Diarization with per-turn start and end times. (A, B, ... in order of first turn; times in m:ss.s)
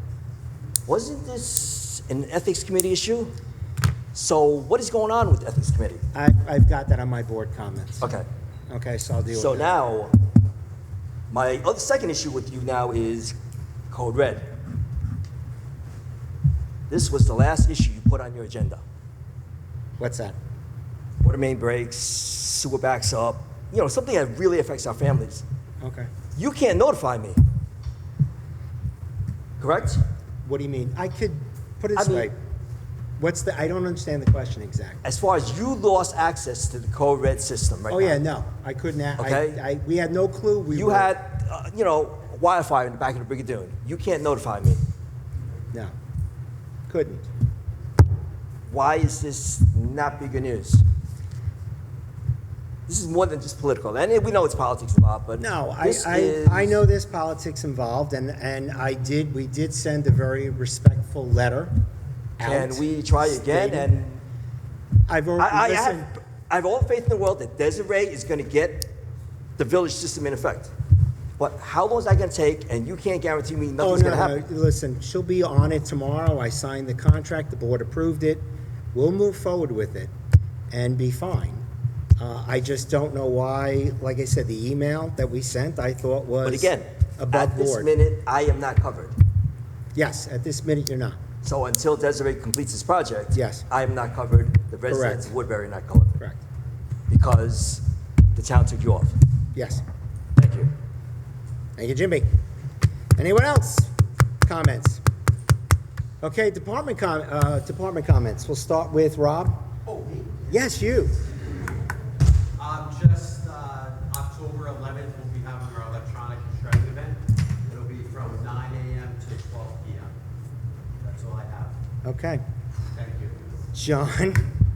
0:00.9-0:03.4 A
0:04.1-0:06.0 A
0:06.1-0:08.0 B
0:08.0-0:08.3 A
0:08.7-0:09.7 B
0:09.3-0:10.1 A
0:11.3-0:13.4 A
0:13.9-0:14.5 A
0:16.9-0:18.8 A
0:20.0-0:20.4 B
0:21.2-0:25.4 A
0:25.8-0:26.1 B
0:26.4-0:27.4 A
0:29.6-0:30.0 A
0:30.4-0:32.4 B
0:32.0-0:32.3 A
0:33.2-0:35.0 B
0:35.0-0:38.2 A
0:37.9-0:41.1 B
0:39.2-0:39.6 A
0:40.7-0:44.8 A
0:46.9-0:47.2 B
0:48.7-0:50.8 A
0:52.9-0:56.8 A
0:55.4-1:01.7 B
1:02.4-1:03.9 B
1:02.4-1:04.2 A
1:05.1-1:06.1 B
1:05.4-1:08.9 A
1:09.6-1:10.7 A
1:11.4-1:14.4 A
1:13.8-1:20.1 B
1:20.7-1:21.6 B
1:22.2-1:27.9 B
1:26.4-1:29.2 A
1:30.0-1:31.2 B
1:31.4-1:36.2 A
1:33.3-1:33.7 B
1:34.9-1:35.3 B
1:37.1-1:39.2 A
1:39.6-1:39.8 B
1:40.4-1:40.7 A
1:41.8-1:42.3 B
1:43.2-1:43.9 B
1:44.4-1:45.0 B
1:46.2-1:49.6 B
1:49.9-1:50.5 C
1:50.5-1:51.1 B
1:52.6-2:00.1 C
2:01.0-2:01.8 C
2:02.0-2:02.4 B
2:03.0-2:03.4 C
2:03.7-2:04.4 B